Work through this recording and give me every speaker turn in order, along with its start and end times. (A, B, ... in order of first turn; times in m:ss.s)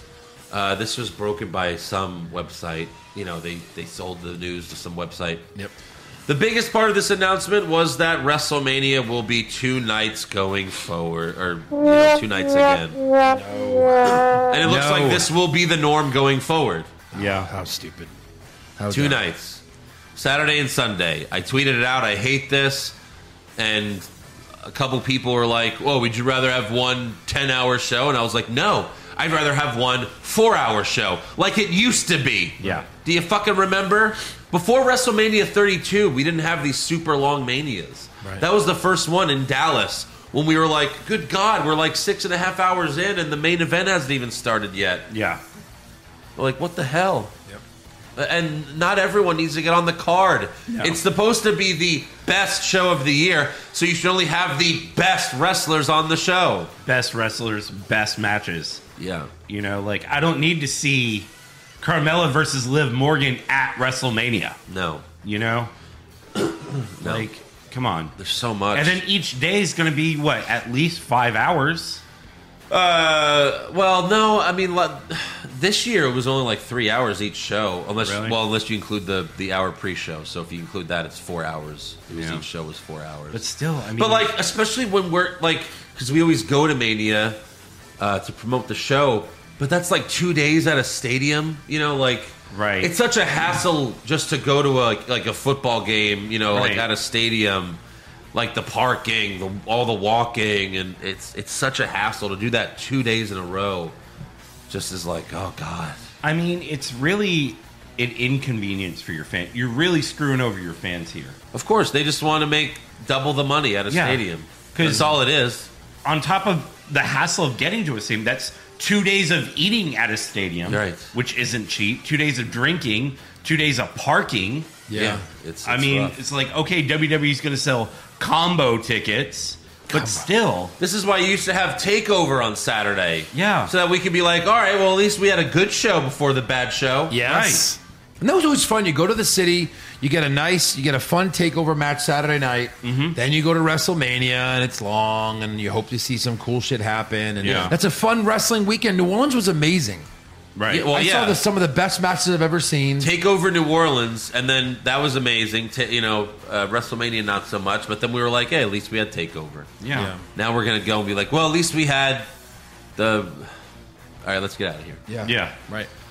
0:00.5-0:05.4 A
0:06.3-0:13.0 A
0:13.2-0:15.3 B
0:14.5-0:16.9 A
0:17.1-0:18.1 B
0:17.2-0:17.5 C
0:18.8-0:19.2 B
0:18.9-0:19.6 A
0:20.2-0:23.0 A
0:23.6-0:45.1 A
0:45.1-0:45.4 C
0:46.4-0:47.4 A
0:48.2-0:56.7 A
0:50.7-0:51.0 C
0:56.8-0:58.8 C
0:59.0-0:59.3 A
0:59.5-1:04.6 C
1:04.7-1:05.1 A
1:05.2-1:05.7 C
1:06.4-1:07.3 A
1:07.0-1:08.1 C
1:08.2-1:09.0 A
1:08.7-1:12.0 C
1:12.7-1:23.4 A
1:18.0-1:18.4 C
1:22.1-1:22.5 C
1:23.3-1:24.3 C
1:24.0-1:27.4 A
1:28.0-1:37.8 A
1:32.5-1:32.9 C
1:36.5-1:36.9 C
1:38.3-1:44.0 A
1:44.7-1:46.0 A
1:46.2-1:51.4 C
1:51.5-1:55.7 A
1:53.9-1:55.2 C
1:56.0-2:04.8 C
2:00.7-2:01.1 A
2:04.9-2:05.2 B
2:05.0-2:06.2 A
2:05.6-2:10.8 C
2:09.9-2:10.3 B
2:10.8-2:17.2 A
2:13.3-2:13.7 C
2:17.1-2:30.1 B
2:17.2-2:17.6 C
2:22.8-2:23.2 C
2:27.4-2:27.8 C
2:30.6-2:30.9 C
2:30.7-2:31.4 A
2:30.9-2:33.1 B
2:33.0-2:39.8 A
2:39.8-2:40.1 C
2:39.9-2:40.2 B
2:40.4-2:42.3 A
2:43.0-2:43.6 A
2:44.2-2:45.0 A
2:45.1-2:45.9 B
2:45.2-2:45.6 C